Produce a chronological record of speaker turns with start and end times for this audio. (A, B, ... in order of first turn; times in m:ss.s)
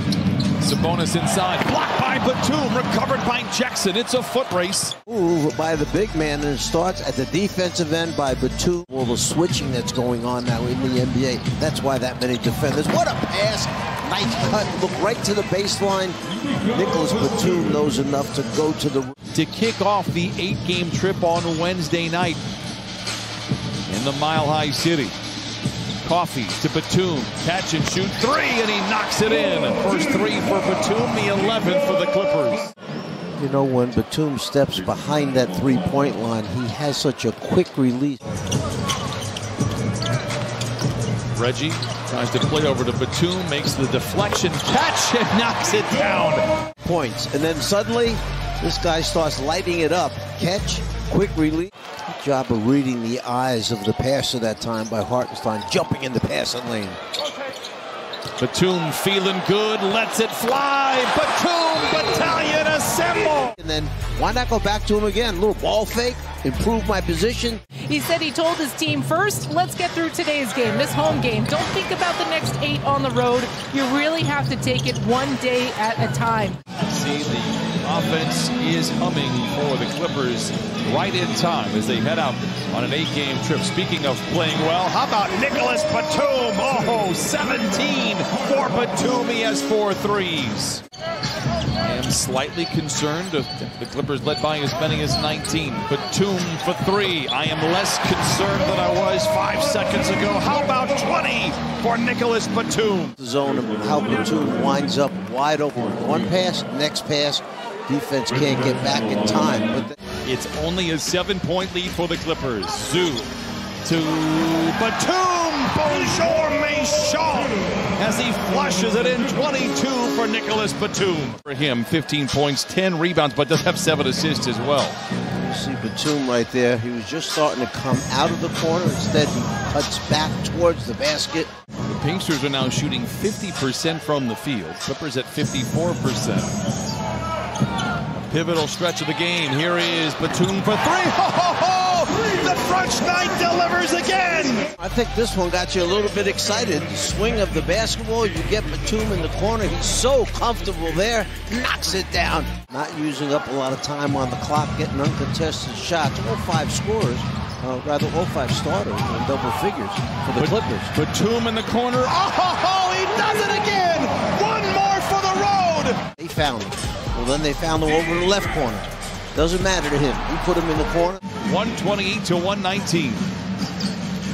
0:00.6-0:04.9 A
0:05.1-0:16.2 B
0:16.7-0:19.1 B
0:19.3-0:22.4 A
0:23.9-0:25.1 A
0:26.0-0:32.6 A
0:33.4-0:38.2 B
0:41.3-0:46.4 A
0:46.8-0:57.0 B
0:58.4-1:03.5 A
1:03.6-1:07.6 B
1:07.9-1:16.6 C
1:16.8-1:30.8 A
1:31.8-1:43.1 A
1:43.2-1:49.9 B
1:50.2-1:53.3 A
1:53.8-2:05.0 A
2:05.4-2:11.5 B
2:11.8-2:16.6 A
2:18.1-2:24.7 A
2:24.8-2:40.9 B
2:40.4-2:46.0 A
2:46.2-2:51.2 B
2:51.4-2:53.3 A